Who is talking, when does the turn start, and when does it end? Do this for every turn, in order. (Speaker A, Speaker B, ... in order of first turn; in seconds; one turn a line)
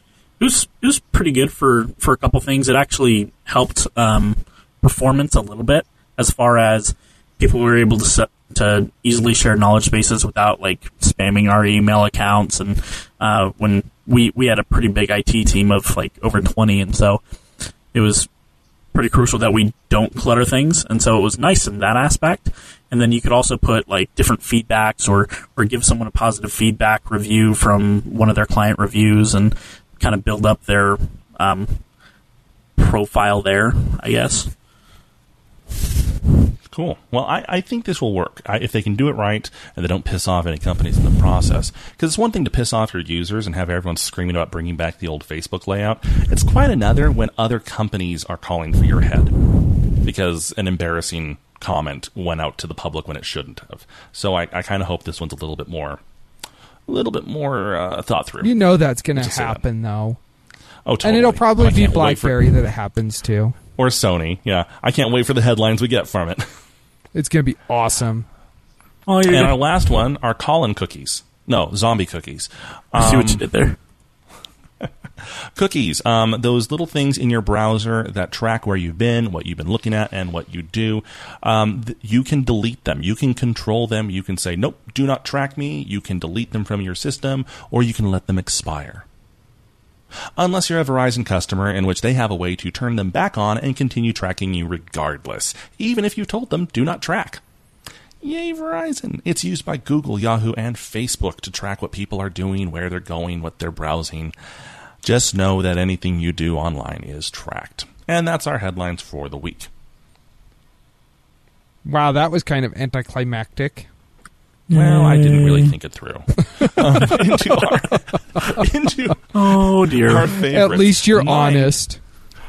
Speaker A: 0.4-17.2
Speaker A: 17.9-18.3
Speaker A: 18.9-31.8
Speaker A: 32.8-34.5
Speaker B: 36.7-49.4
Speaker B: 50.0-56.0
Speaker B: 56.9-58.5
Speaker C: 58.4-60.2
Speaker B: 59.1-59.6
Speaker B: 60.8-62.5
Speaker C: 61.0-63.6
Speaker B: 63.8-66.5
Speaker C: 67.1-68.3
Speaker A: 69.1-69.6
Speaker B: 69.2-73.4
Speaker A: 72.9-73.8
Speaker B: 74.8-89.0
Speaker B: 90.3-97.4
Speaker B: 98.2-104.3
Speaker B: 105.0-109.7
Speaker C: 111.8-113.9
Speaker A: 114.7-115.7
Speaker B: 114.7-121.7
Speaker A: 119.3-120.3
Speaker C: 120.5-122.0